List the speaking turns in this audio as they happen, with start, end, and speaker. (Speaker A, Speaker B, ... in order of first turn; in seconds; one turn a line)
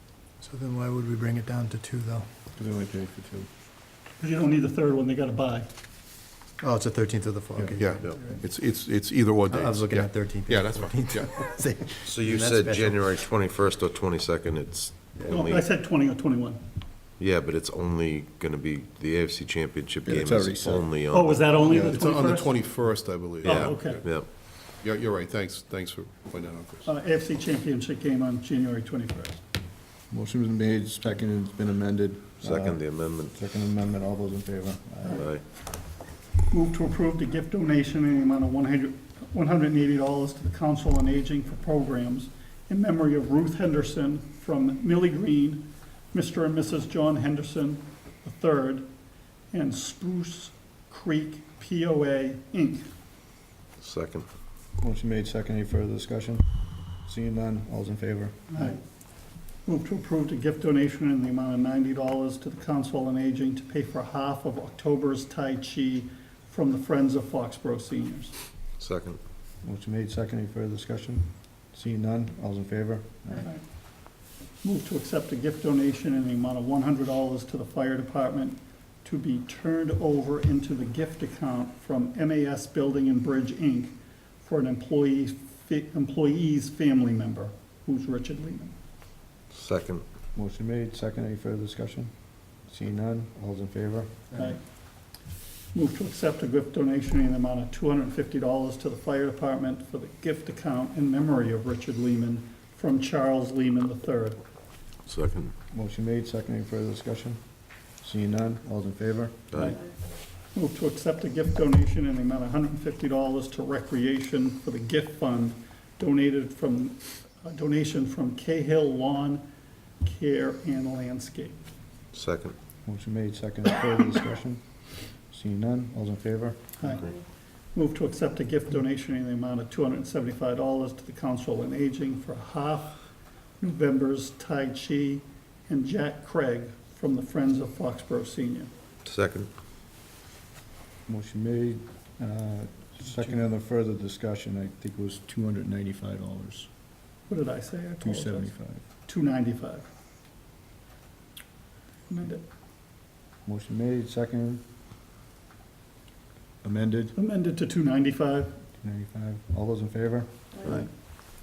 Speaker A: 0.4-2.3
Speaker B: 2.5-3.5
Speaker C: 4.2-5.7
Speaker A: 6.6-8.2
Speaker D: 7.8-11.5
Speaker A: 9.5-12.9
Speaker E: 12.0-15.6
Speaker C: 15.3-16.6
Speaker E: 17.2-21.5
Speaker B: 20.0-20.9
Speaker C: 21.1-22.9
Speaker B: 21.7-21.9
Speaker D: 21.7-24.1
Speaker E: 23.4-24.3
Speaker C: 23.4-24.0
Speaker D: 24.8-26.9
Speaker C: 26.9-29.4
Speaker B: 30.1-32.8
Speaker E: 32.4-33.4
Speaker B: 33.3-35.3
Speaker C: 35.0-35.4
Speaker E: 35.1-35.4
Speaker C: 36.5-48.9
Speaker C: 49.5-52.9
Speaker E: 53.8-54.2
Speaker B: 54.8-56.4
Speaker B: 57.0-58.7
Speaker C: 58.5-58.8
Speaker C: 59.6-68.3
Speaker E: 68.8-69.2
Speaker B: 69.6-73.5
Speaker C: 74.6-88.7
Speaker E: 89.5-90.0
Speaker B: 90.3-92.1
Speaker B: 92.7-94.2
Speaker C: 95.7-104.4
Speaker E: 105.0-105.5
Speaker B: 105.7-107.4
Speaker B: 108.0-109.7
Speaker E: 109.5-109.8
Speaker C: 109.5-109.8
Speaker C: 110.5-119.5
Speaker C: 120.0-121.6
Speaker E: 122.1-122.5
Speaker B: 122.8-124.6
Speaker B: 125.3-126.7
Speaker C: 126.8-127.1
Speaker C: 127.7-133.0
Speaker C: 133.6-138.7
Speaker E: 139.0-139.5
Speaker B: 141.1-146.7
Speaker C: 147.3-149.9
Speaker B: 148.0-148.8
Speaker C: 152.1-152.4
Speaker B: 153.4-154.6
Speaker B: 156.6-157.1
Speaker C: 157.1-158.6
Speaker B: 158.8-160.8